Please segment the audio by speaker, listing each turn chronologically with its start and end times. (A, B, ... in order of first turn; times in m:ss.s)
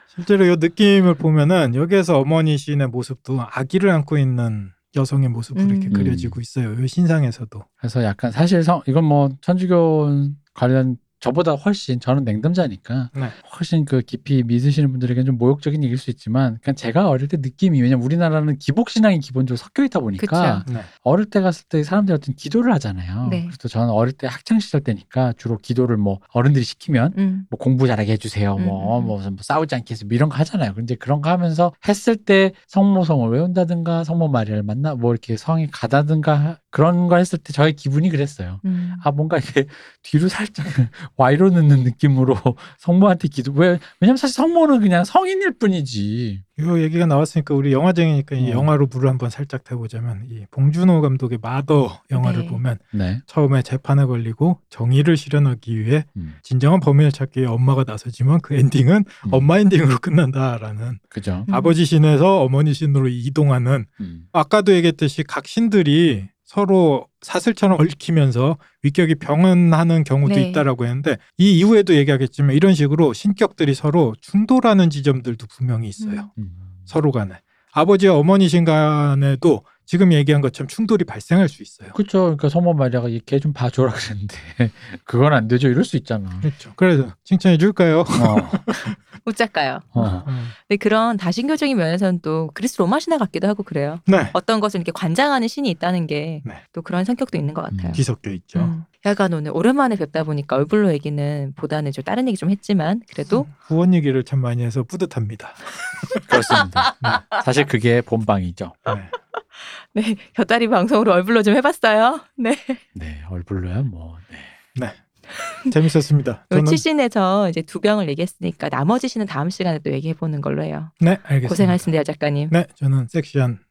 0:00.1-0:07.6 A
0:05.5-0:05.9 B
0:05.9-0:06.4 C
0:07.8-0:46.4 C
0:20.2-0:20.6 B
0:20.6-0:20.9 A
0:23.2-0:23.5 B
0:27.1-0:27.5 B
0:28.6-0:29.1 B
0:38.6-0:39.0 B
0:46.6-1:16.3 A
0:48.4-0:48.7 C
0:52.1-0:52.6 B
0:52.9-0:53.2 C
1:01.1-1:01.5 C
1:01.5-1:01.8 B
1:04.0-1:04.3 C
1:10.2-1:10.6 B
1:16.0-1:16.3 B
1:16.4-1:16.9 C
1:16.9-1:22.0 A
1:21.9-1:26.5 C
1:26.4-1:28.9 A
1:28.1-1:28.7 C
1:29.2-1:43.5 B
1:29.9-1:30.2 C
1:30.2-1:30.5 A
1:34.0-1:34.3 A
1:37.7-1:38.0 C
1:37.9-1:38.7 A
1:43.3-1:46.2 A
1:46.3-1:48.8 C
1:46.5-1:47.2 B
1:49.4-1:52.8 B
1:52.9-1:54.6 C
1:55.4-1:55.7 B
1:55.6-1:56.8 A
1:56.5-2:02.5 B
2:01.0-2:01.8 A
2:02.5-2:03.6 A